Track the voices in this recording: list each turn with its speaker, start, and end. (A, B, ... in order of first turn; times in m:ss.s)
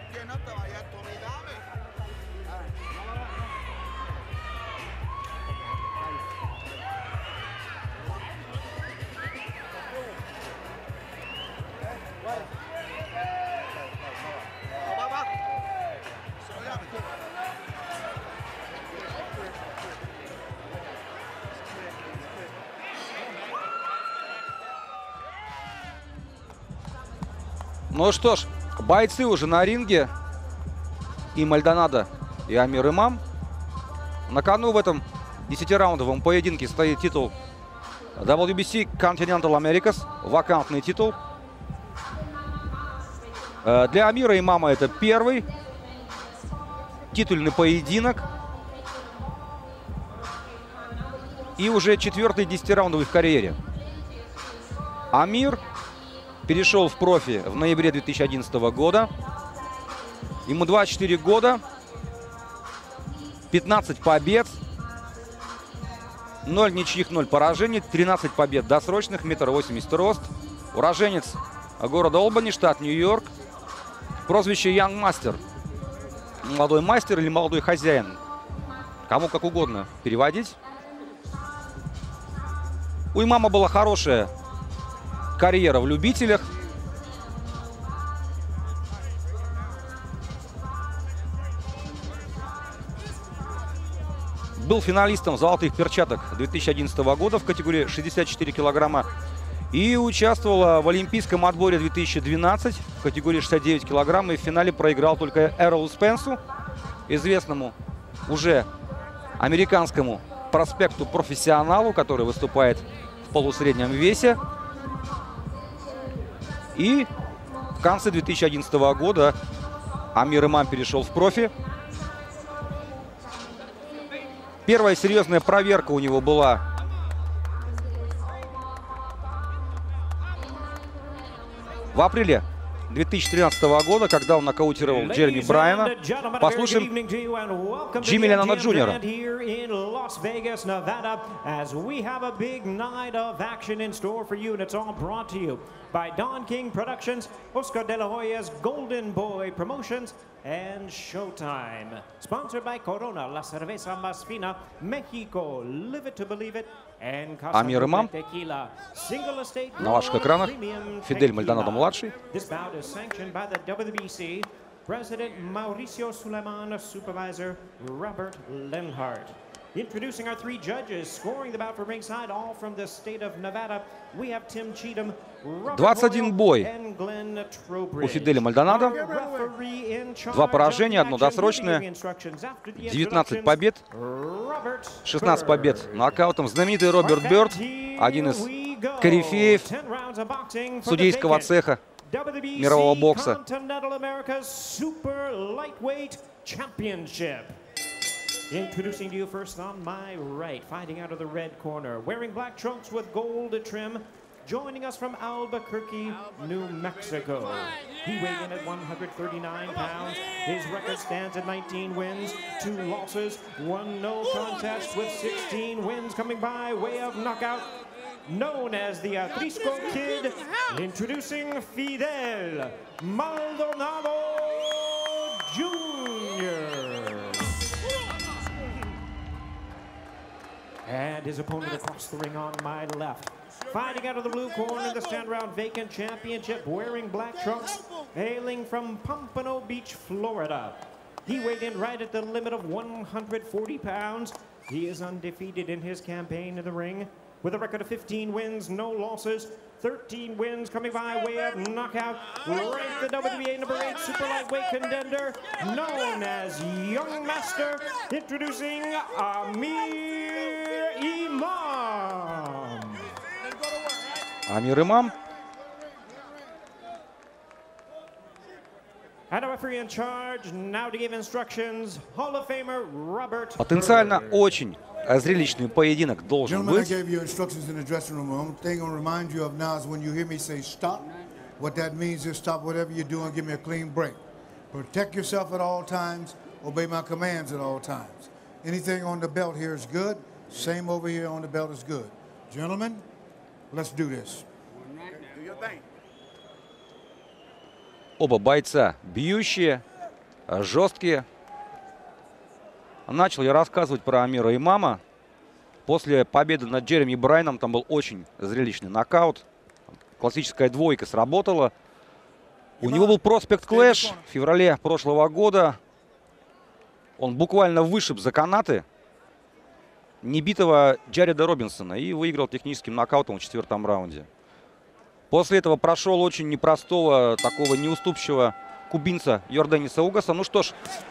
0:27.9-0:30.1 A
0:31.3-0:33.2 A
0:34.3-0:37.3 A
0:38.2-0:41.2 A
0:43.6-0:45.5 A
0:47.1-0:48.2 A
0:51.6-0:53.6 A
0:55.1-0:55.6 A
0:56.4-0:59.1 A
1:00.4-1:01.6 A
1:03.5-1:04.6 A
1:06.4-1:13.3 A
1:14.3-1:15.4 A
1:16.4-1:18.2 A
1:19.1-1:20.6 A
1:23.1-1:24.3 A
1:25.4-1:26.4 A
1:34.6-1:39.1 A
1:39.7-1:46.4 A
1:47.1-1:47.7 A
1:48.3-1:48.7 A
1:49.4-1:54.4 A
1:56.7-1:57.1 A
1:57.8-1:59.4 A
2:00.1-2:01.5 A
2:04.6-2:06.6 A
2:11.9-2:16.9 A
2:14.8-3:06.2 B
2:18.0-2:19.0 A
2:37.5-2:38.1 A
2:39.8-2:40.5 A
2:41.0-2:42.1 A
2:55.7-2:56.7 A
2:58.0-2:59.0 A
3:00.3-3:01.8 A
3:02.8-3:03.8 A
3:05.0-3:08.4 A
3:07.0-3:17.6 B
3:09.0-3:09.6 A
3:10.8-3:11.8 A
3:12.5-3:13.4 A
3:18.5-3:47.5 B
3:50.8-4:23.1 B
4:24.5-4:25.1 A
4:29.3-4:34.3 B
4:33.6-4:37.0 A
4:36.4-4:44.2 C
4:44.7-4:53.0 C
4:53.7-4:54.4 C
4:58.2-4:59.8 A
5:00.5-5:01.2 A
5:03.1-5:05.0 A
5:05.8-5:09.4 A
5:10.2-5:11.7 A
5:12.8-5:15.8 A
5:12.8-5:14.2 C
5:17.2-5:18.8 A
5:20.2-5:24.3 A
5:25.3-5:30.8 A